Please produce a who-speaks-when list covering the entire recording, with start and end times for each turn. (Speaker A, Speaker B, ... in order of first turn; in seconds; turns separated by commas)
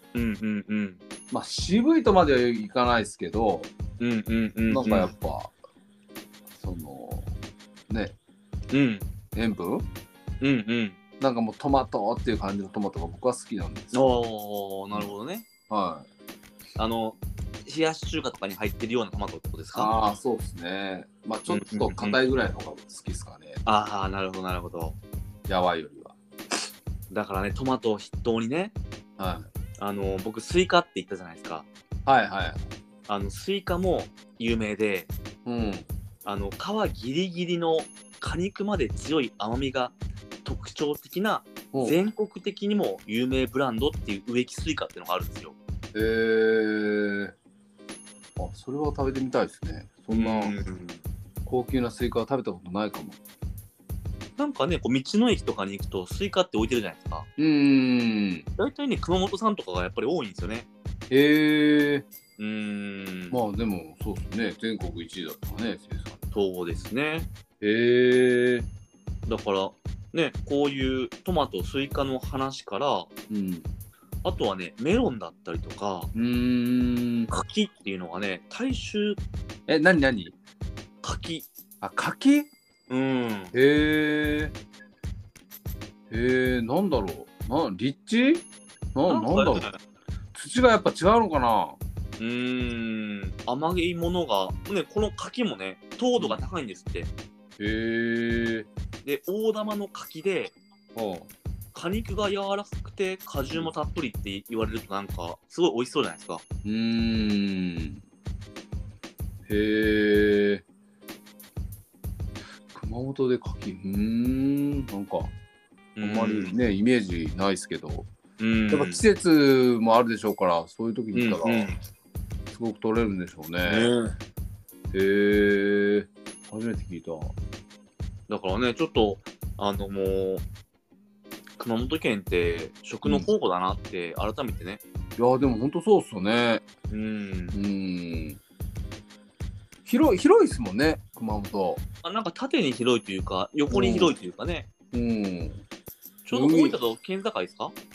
Speaker A: 0.1-1.0, Speaker B: 1.3-3.7, Speaker A: 4.0-5.1, Speaker B: 4.7-5.5, Speaker B: 6.5-7.3, Speaker B: 7.9-8.2, Speaker A: 8.7-9.1, Speaker B: 9.3-9.8, Speaker A: 10.4-11.0, Speaker B: 11.2-14.1, Speaker A: 13.9-15.5, Speaker B: 15.7-16.1, Speaker A: 16.8-19.9, Speaker B: 19.7-23.6, Speaker A: 21.5-22.2, Speaker A: 23.6-25.0, Speaker B: 25.5-26.1, Speaker A: 27.1-28.7, Speaker B: 29.2-29.5, Speaker A: 29.8-31.7, Speaker B: 32.0-32.6, Speaker A: 33.1-35.1, Speaker B: 35.5-35.9, Speaker A: 36.2-45.5, Speaker B: 41.7-42.0, Speaker B: 45.9-47.3, Speaker B: 48.4-50.6, Speaker A: 50.1-51.0, Speaker B: 51.4-53.2, Speaker A: 54.4-57.3, Speaker B: 57.4-58.5, Speaker A: 58.6-60.7, Speaker B: 61.1-62.0, Speaker A: 62.4-63.4, Speaker B: 63.3-66.2, Speaker A: 66.3-67.3, Speaker B: 67.6-68.7, Speaker A: 69.3-73.1, Speaker B: 73.3-73.7, Speaker A: 74.2-76.1, Speaker B: 76.1-77.3, Speaker A: 77.3-79.2, Speaker B: 79.7-80.3, Speaker A: 81.0-81.5, Speaker B: 81.8-82.5, Speaker A: 82.9-83.5, Speaker B: 83.5-84.5, Speaker B: 86.1-89.7, Speaker A: 89.1-89.8, Speaker B: 90.3-91.8, Speaker A: 92.2-97.1, Speaker B: 96.2-96.4, Speaker B: 97.6-98.7, Speaker A: 99.0-100.5, Speaker B: 100.9-101.3, Speaker A: 101.7-106.4, Speaker B: 106.6-108.0, Speaker B: 109.5-110.6, Speaker B: 112.7-115.3, Speaker A: 116.0-116.5, Speaker B: 116.0-118.1, Speaker A: 118.4-119.0, Speaker B: 118.7-121.7, Speaker A: 121.1-121.8, Speaker B: 122.5-123.9, Speaker A: 123.6-124.2, Speaker B: 124.9-127.3, Speaker A: 128.3-130.4, Speaker A: 131.6-134.8, Speaker B: 133.0-133.3, Speaker B: 135.2-136.6, Speaker A: 136.9-137.6, Speaker B: 137.5-138.4, Speaker B: 139.8-141.8, Speaker A: 142.0-144.7, Speaker B: 143.7-144.1, Speaker B: 144.9-145.6, Speaker A: 146.2-147.7, Speaker B: 146.3-146.8